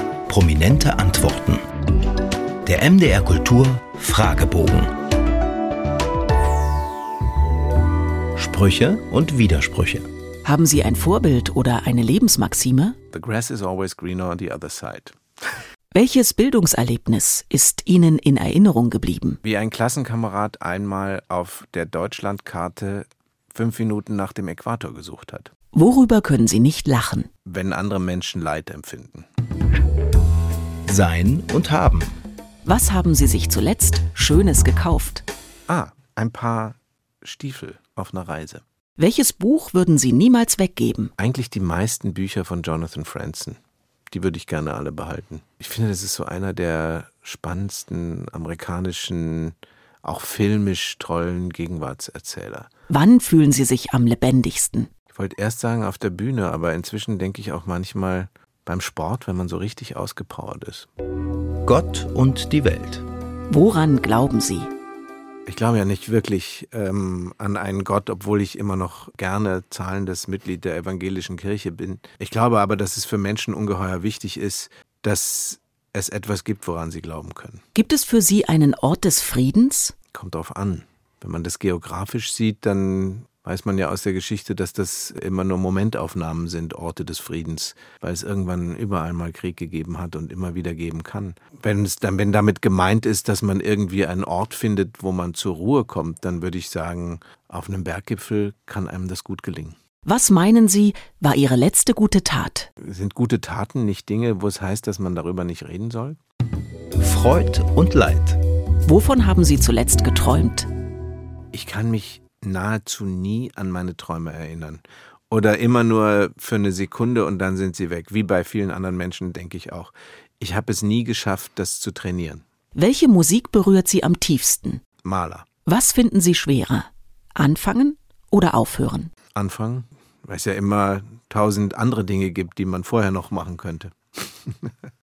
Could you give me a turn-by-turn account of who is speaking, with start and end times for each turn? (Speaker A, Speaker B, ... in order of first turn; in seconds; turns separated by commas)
Speaker A: 0.3-1.6, Speaker A: 2.7-4.9, Speaker A: 8.4-9.8, Speaker B: 10.4-13.0, Speaker C: 13.1-15.2, Speaker B: 15.9-19.4, Speaker C: 19.4-25.5, Speaker B: 25.7-27.3, Speaker C: 27.4-29.3, Speaker A: 30.9-32.1, Speaker B: 32.6-35.2, Speaker C: 35.7-38.6, Speaker B: 39.0-41.1, Speaker C: 41.2-43.6, Speaker C: 44.1-52.7, Speaker B: 52.9-54.9, Speaker C: 55.1-60.9, Speaker A: 61.6-63.0, Speaker B: 63.5-64.7, Speaker C: 65.5-77.6, Speaker B: 77.8-80.0, Speaker C: 80.1-99.8, Speaker B: 100.0-102.7, Speaker C: 102.8-106.2, Speaker A: 107.0-108.4, Speaker B: 108.8-110.7, Speaker C: 111.5-122.4, Speaker B: 122.8-124.8, Speaker C: 125.0-125.5, Speaker B: 125.7-129.1, Speaker C: 129.3-134.7